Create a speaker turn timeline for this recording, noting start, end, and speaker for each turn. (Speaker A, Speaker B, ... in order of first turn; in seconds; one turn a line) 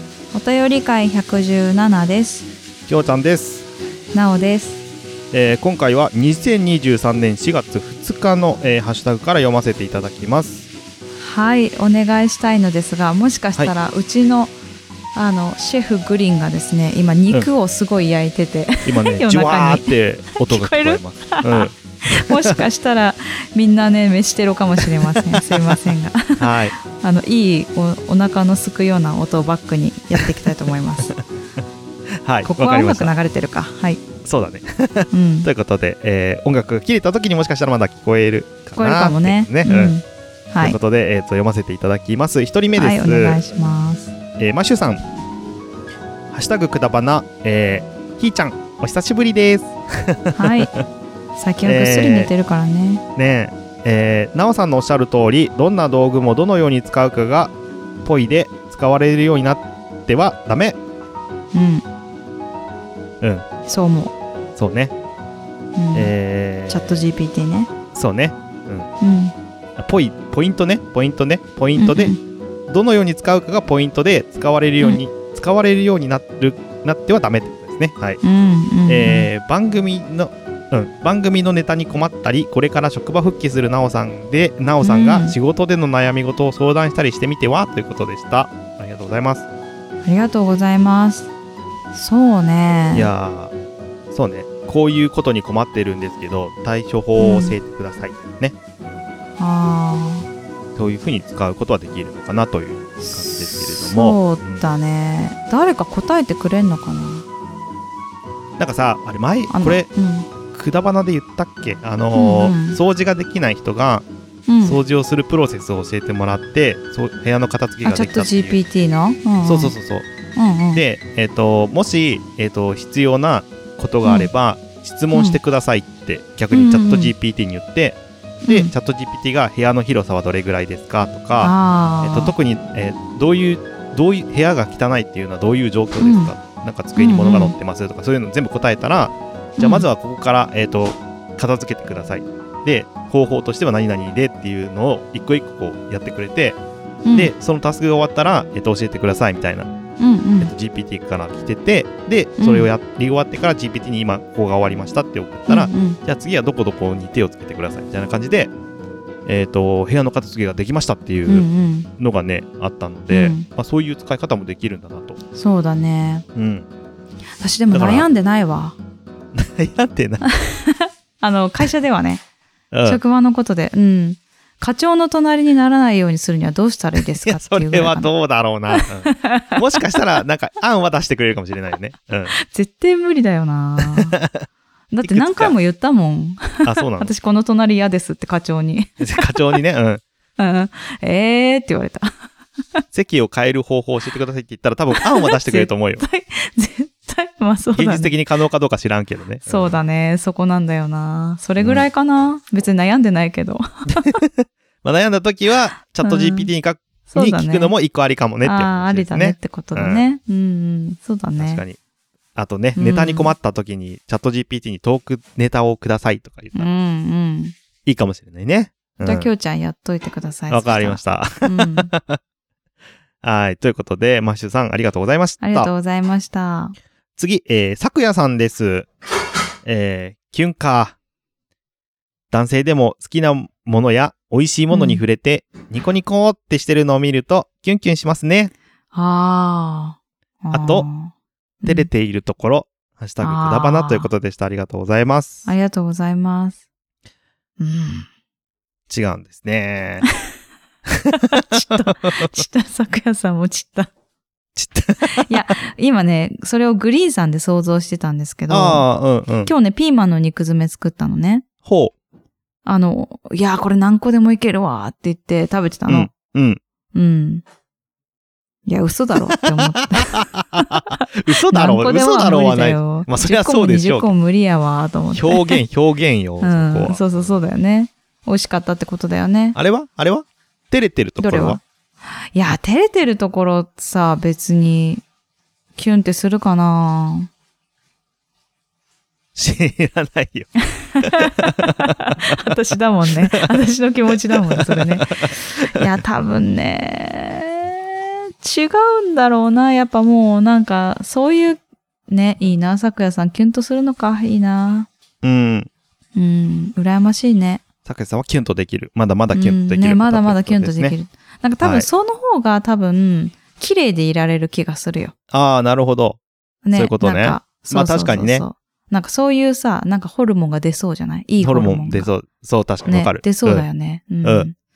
Speaker A: 0.3-2.5
Speaker B: 2.9-3.7
Speaker A: 4.1-4.8
Speaker B: 5.3-10.7
Speaker A: 11.2-14.5
Speaker A: 15.1-31.1
Speaker B: 18.8-22.6
Speaker B: 24.8-25.8
Speaker B: 26.4-26.7
Speaker B: 32.2-33.1
Speaker A: 32.4-34.0
Speaker B: 34.2-40.0
Speaker A: 35.1-35.5
Speaker A: 38.8-40.8
Speaker B: 40.6-43.4
Speaker A: 42.8-44.1
Speaker B: 44.4-45.0
Speaker B: 46.3-50.8
Speaker A: 50.3-50.7
Speaker A: 51.4-53.0
Speaker B: 51.6-52.3
Speaker B: 53.1-57.5
Speaker B: 58.0-60.8
Speaker A: 61.5-61.8
Speaker A: 63.6-64.2
Speaker B: 64.5-64.9
Speaker A: 65.8-66.1
Speaker B: 65.9-67.0
Speaker A: 66.7-67.7
Speaker B: 67.9-68.9
Speaker A: 69.0-69.3
Speaker B: 69.8-72.1
Speaker A: 71.8-72.2
Speaker B: 72.7-78.2
Speaker A: 78.2-79.3
Speaker B: 78.8-89.5
Speaker A: 84.8-85.3
Speaker A: 90.0-91.3
Speaker A: 91.9-93.1
Speaker B: 92.9-93.5
Speaker B: 94.1-98.5
Speaker A: 97.2-97.5
Speaker A: 99.4-100.3
Speaker B: 100.8-104.6
Speaker A: 103.0-107.2
Speaker B: 108.6-109.9
Speaker A: 109.5-110.3
Speaker B: 110.5-114.1
Speaker A: 112.1-112.8
Speaker A: 114.5-114.8
Speaker B: 114.6-118.6
Speaker A: 117.8-119.7
Speaker B: 119.4-120.1
Speaker A: 120.3-120.8
Speaker B: 120.7-146.6
Speaker A: 124.0-124.3
Speaker A: 125.1-125.4
Speaker A: 126.5-127.1
Speaker A: 128.4-128.7
Speaker A: 131.4-132.3
Speaker A: 136.0-136.3
Speaker A: 136.9-137.6
Speaker A: 139.6-139.8
Speaker A: 147.0-147.3
Speaker B: 147.1-149.7
Speaker A: 150.0-150.5
Speaker B: 150.4-158.5
Speaker A: 152.4-152.7
Speaker A: 155.5-156.0
Speaker B: 159.2-165.2
Speaker A: 161.2-161.9
Speaker A: 163.1-163.5
Speaker A: 165.3-166.2
Speaker B: 166.3-166.7
Speaker A: 167.4-168.8
Speaker B: 167.7-168.1
Speaker B: 169.3-170.2
Speaker A: 170.3-172.2
Speaker B: 172.7-173.0
Speaker A: 172.8-178.1
Speaker B: 177.2-182.3
Speaker A: 178.7-179.8
Speaker A: 182.4-184.2
Speaker B: 183.8-184.4
Speaker A: 184.9-189.6
Speaker B: 185.0-185.5
Speaker B: 186.6-187.1
Speaker B: 189.0-190.0
Speaker A: 190.4-192.1
Speaker B: 192.9-196.0
Speaker A: 195.0-198.1
Speaker B: 197.7-199.7
Speaker A: 199.4-204.2
Speaker B: 201.6-201.8
Speaker B: 203.9-210.0
Speaker A: 206.0-206.5
Speaker A: 207.1-207.7
Speaker A: 208.4-211.6
Speaker B: 211.4-211.8
Speaker B: 212.3-216.7
Speaker A: 212.8-213.3
Speaker A: 216.5-217.5
Speaker B: 217.8-219.3
Speaker A: 219.0-221.9
Speaker B: 220.5-222.2
Speaker B: 223.2-225.7
Speaker A: 225.4-226.7
Speaker B: 227.2-228.9
Speaker B: 229.6-230.9
Speaker B: 232.3-238.5
Speaker A: 234.7-235.0
Speaker A: 238.9-241.1
Speaker B: 240.5-240.9
Speaker A: 241.6-241.9
Speaker B: 241.7-245.5
Speaker A: 243.2-244.1
Speaker A: 245.4-246.6
Speaker A: 247.6-248.1
Speaker B: 248.9-250.1
Speaker B: 250.9-252.4
Speaker A: 251.1-253.9
Speaker B: 254.5-255.4
Speaker A: 255.0-258.8
Speaker B: 258.5-259.5
Speaker A: 259.4-261.4
Speaker B: 261.6-261.9
Speaker A: 262.6-266.1
Speaker B: 265.9-266.6
Speaker A: 266.9-267.4
Speaker A: 268.6-275.6
Speaker B: 269.4-274.1
Speaker B: 275.1-277.4
Speaker A: 276.4-279.6
Speaker B: 279.5-281.6
Speaker A: 281.2-281.6
Speaker A: 282.3-285.0
Speaker A: 285.7-287.3
Speaker B: 289.3-292.3
Speaker A: 290.7-304.9
Speaker B: 294.3-295.8
Speaker B: 305.2-305.7
Speaker A: 306.1-307.6
Speaker B: 307.8-311.0
Speaker A: 309.3-315.1
Speaker B: 311.6-311.9
Speaker B: 315.3-316.2
Speaker A: 316.6-322.1
Speaker B: 316.7-318.4
Speaker B: 321.4-323.6
Speaker A: 322.9-324.5
Speaker B: 324.2-324.5